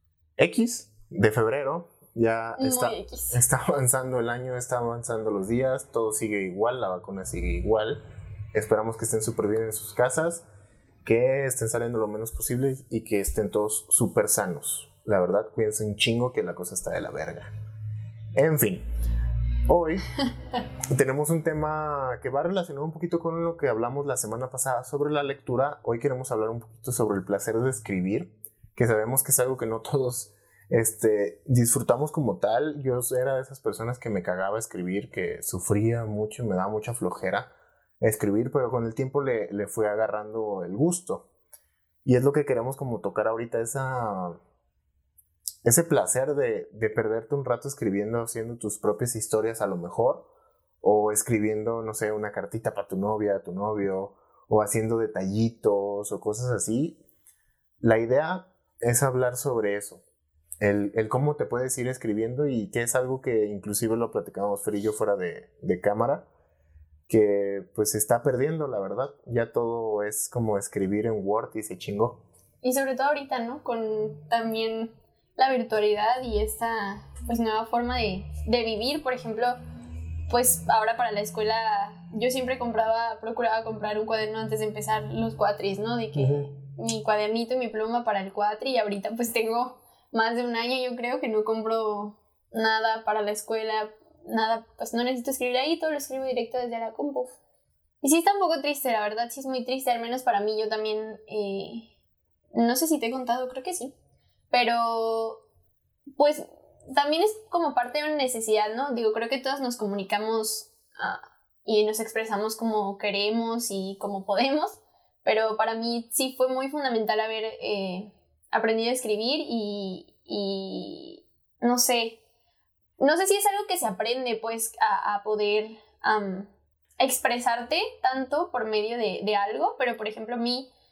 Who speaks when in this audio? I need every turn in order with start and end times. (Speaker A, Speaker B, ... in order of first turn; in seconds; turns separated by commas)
Speaker A: 0.4-8.0, Speaker B: 2.6-3.4, Speaker A: 8.5-10.4, Speaker A: 11.0-17.5, Speaker A: 18.4-18.9, Speaker A: 19.7-20.1, Speaker A: 20.9-37.5, Speaker A: 38.0-41.3, Speaker A: 42.0-44.4, Speaker A: 45.6-50.3, Speaker A: 50.8-57.0, Speaker A: 57.8-60.0, Speaker A: 60.6-66.3, Speaker A: 67.1-72.2, Speaker B: 72.6-79.6, Speaker B: 80.3-97.4, Speaker A: 86.2-86.5, Speaker B: 98.0-101.9, Speaker B: 102.5-103.9, Speaker B: 104.5-105.4, Speaker B: 106.2-122.2, Speaker B: 123.0-130.7